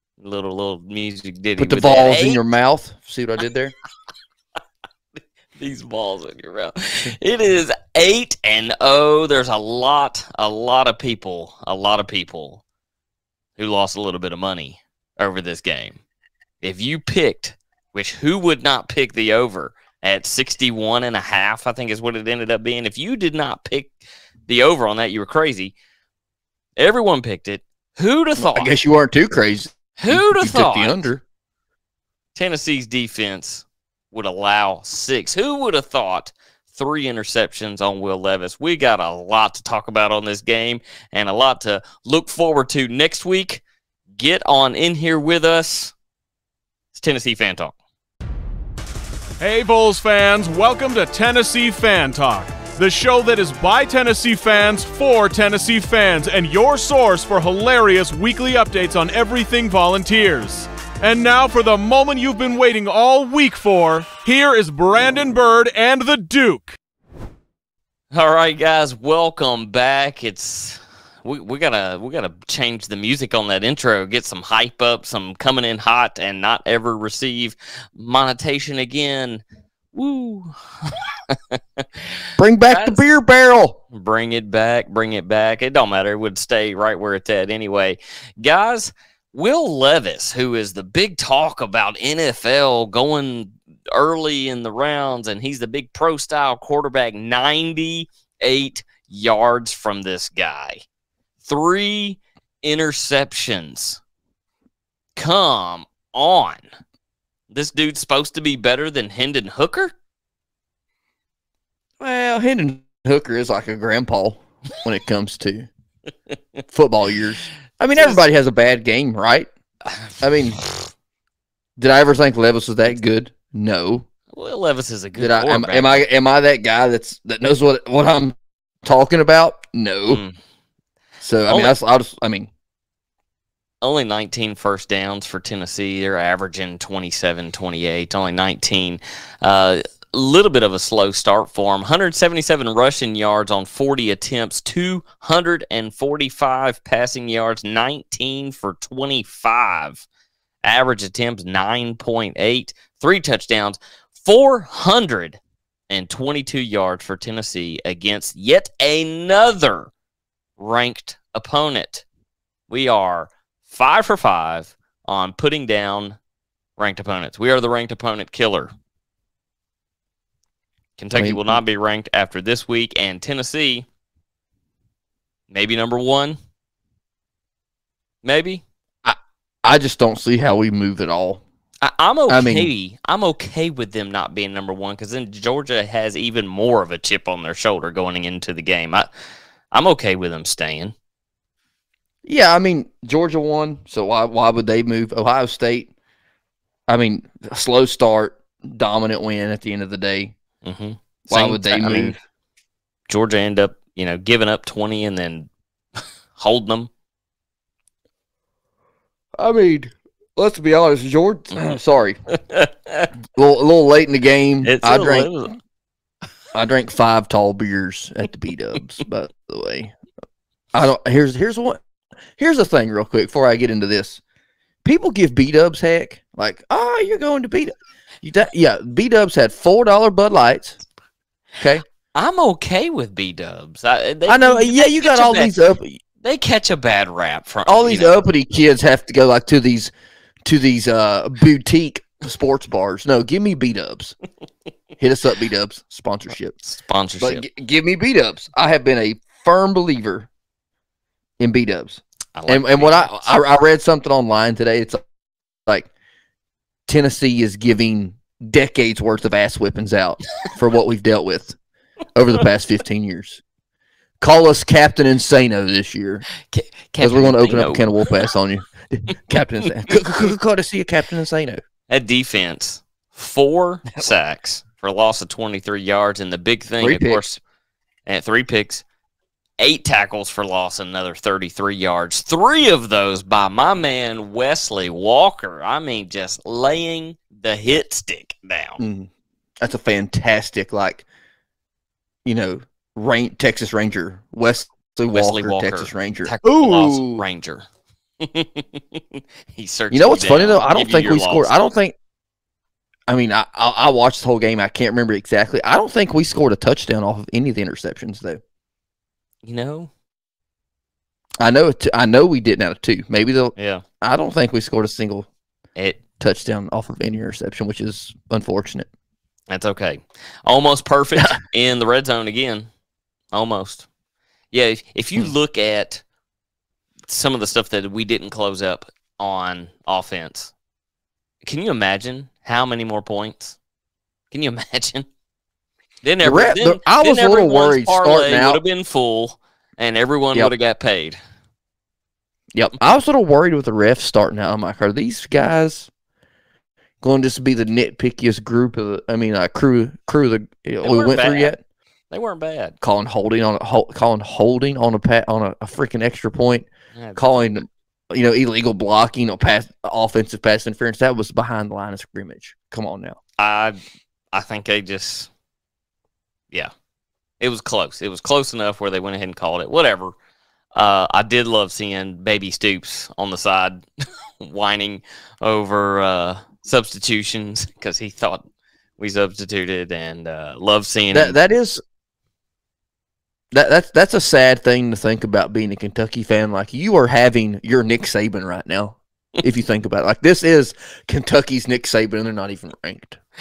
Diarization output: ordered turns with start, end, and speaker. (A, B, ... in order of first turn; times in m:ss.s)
0:00.2-0:02.4 A
0:01.6-0:03.7 B
0:05.6-0:12.6 A
0:13.6-0:16.0 A
0:16.6-0:24.0 A
0:24.5-0:25.8 A
0:26.8-0:28.7 A
0:28.4-0:31.2 B
0:30.0-0:31.0 A
0:32.3-0:43.6 A
0:44.2-0:45.9 A
0:46.9-0:47.8 A
0:49.4-1:06.8 C
1:08.1-1:19.4 A
1:19.9-1:22.1 A
1:22.4-1:23.8 B
1:22.7-1:23.0 A
1:23.9-1:40.8 A
1:41.4-1:44.0 A
1:45.2-1:46.6 A
1:47.5-1:49.9 A
1:52.0-1:55.7 B
1:56.7-1:59.5 B
2:00.2-2:00.6 B
2:00.6-2:00.9 A
2:01.8-2:04.1 B
2:04.3-2:06.0 A
2:05.2-2:10.2 B
2:10.1-2:10.4 A
2:11.2-2:12.5 B
2:11.5-2:11.8 A
2:13.8-2:30.1 A
2:30.6-2:39.9 A
2:40.6-2:42.1 A
2:42.7-2:46.2 A
2:46.8-2:48.7 A
2:51.0-2:53.9 A
2:51.1-2:51.6 B
2:55.5-2:56.4 A
2:58.2-2:58.6 A
2:59.0-3:01.4 B
3:01.8-3:09.1 A
3:02.3-3:02.7 B
3:09.7-3:10.9 A
3:12.2-3:15.9 B
3:16.9-3:20.3 B
3:20.6-3:22.2 A
3:21.3-3:22.2 B
3:23.1-3:25.5 A
3:26.3-3:26.9 A
3:29.4-3:32.2 B
3:32.3-3:33.1 A
3:33.4-3:35.3 B
3:34.6-3:35.6 A
3:36.5-3:39.9 B
3:40.7-3:41.8 B
3:42.4-3:44.2 B
3:44.8-3:50.8 B
3:52.1-3:55.5 A
3:54.3-3:56.0 B
3:56.2-3:58.2 A
3:57.7-3:59.9 B
4:00.4-4:04.2 B
4:05.0-4:06.6 B
4:06.6-4:07.4 A
4:07.2-4:10.3 B
4:11.4-4:15.0 B
4:12.4-4:13.2 A
4:16.9-4:21.6 B
4:22.1-4:23.4 B
4:24.2-4:26.2 B
4:26.5-4:27.9 A
4:27.0-4:31.6 B
4:31.9-4:37.4 A
4:36.8-4:37.2 B
4:38.1-4:38.8 A
4:39.6-4:48.8 A
4:48.8-4:49.1 B
4:49.6-4:51.0 B
4:52.2-4:57.2 B
4:55.1-4:57.7 A
4:58.2-5:01.5 A
4:59.9-5:01.9 B
5:03.1-5:08.4 B
5:09.4-5:09.9 A
5:11.4-5:15.3 B
5:13.6-5:13.8 A
5:15.8-5:16.0 A
5:16.2-5:18.9 B
5:19.5-5:22.7 A
5:23.3-5:23.9 A
5:24.5-5:26.0 A
5:27.1-5:30.5 A
5:31.4-5:33.6 A
5:34.3-5:35.1 A
5:36.0-5:41.2 A
5:36.2-5:38.6 B
5:42.5-5:45.9 B
5:47.0-5:51.6 B
5:50.8-5:51.6 A
5:52.1-5:52.8 A
5:52.8-6:03.2 B
5:57.0-5:57.5 A
6:03.4-6:03.8 A
6:04.3-6:05.3 A
6:07.4-6:10.1 A
6:10.8-6:13.8 A
6:14.4-6:18.4 A
6:19.0-6:21.4 A
6:21.1-6:21.8 B
6:23.5-6:33.2 B